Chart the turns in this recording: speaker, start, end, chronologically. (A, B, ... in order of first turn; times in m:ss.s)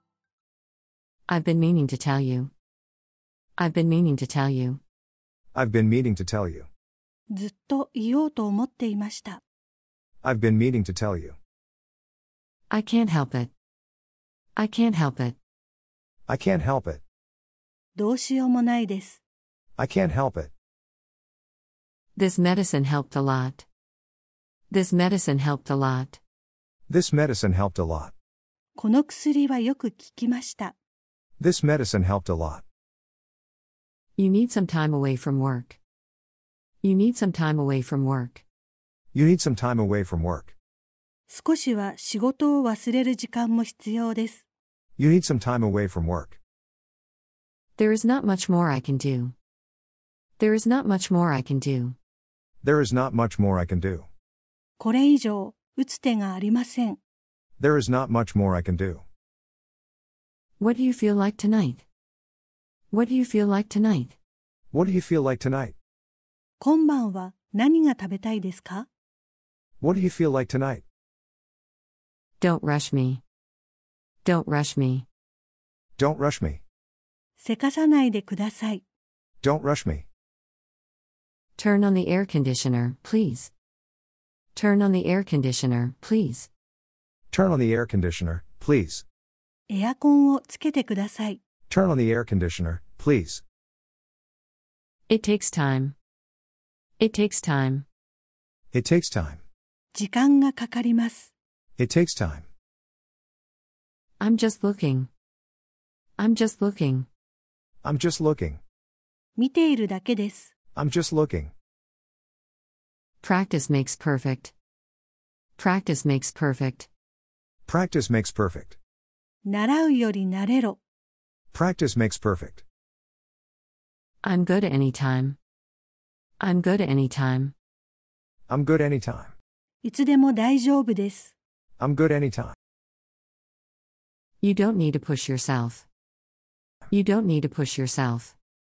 0:01.3-0:02.5 A
0:03.6-0:04.8 A
0:05.5-0:06.7 B
0:07.3-0:09.4 C
0:10.2-0:11.4 B
0:12.7-0:13.5 A
0:14.6-0:15.4 A
0:16.3-0:17.0 B
0:18.0-0:19.2 C
0:19.8-0:20.5 B
0:22.2-0:23.6 A
0:24.7-0:26.2 A
0:26.9-0:28.1 B
0:28.8-0:30.7 C
0:31.4-0:32.6 B
0:34.2-0:35.8 A
0:36.8-0:38.4 A
0:39.1-0:40.5 B
0:41.3-0:44.4 C
0:45.0-0:46.4 B
0:47.8-0:49.3 A
0:50.4-0:52.0 A
0:52.6-0:54.1 B
0:54.8-0:57.0 C
0:57.6-0:59.0 B
1:00.6-1:01.8 A
1:02.9-1:04.2 A
1:04.7-1:05.7 B
1:06.6-1:08.8 C
1:09.8-1:10.8 B
1:12.4-1:13.2 A
1:14.2-1:15.0 A
1:16.0-1:16.6 B
1:17.4-1:18.8 C
1:19.4-1:20.0 B
1:21.6-1:23.5 A
1:24.5-1:26.5 A
1:27.3-1:29.0 B
1:29.7-1:31.4 C
1:31.7-1:33.4 B
1:35.1-1:36.0 A
1:37.0-1:37.8 A
1:38.7-1:39.4 B
1:39.9-1:41.3 C
1:41.8-1:42.5 B
1:44.2-1:45.1 A
1:46.2-1:47.1 A
1:47.8-1:48.6 B
1:49.4-1:50.5 C
1:50.7-1:51.5 B
1:53.2-1:54.5 A
1:55.6-1:56.9 A
1:57.7-1:58.8 B
1:59.4-2:00.8 C
2:01.5-2:02.6 B
2:04.2-2:05.4 A
2:06.4-2:07.5 A
2:08.5-2:09.3 B
2:09.8-2:11.3 C
2:11.8-2:12.6 B
2:14.4-2:15.8 A
2:16.9-2:18.3 A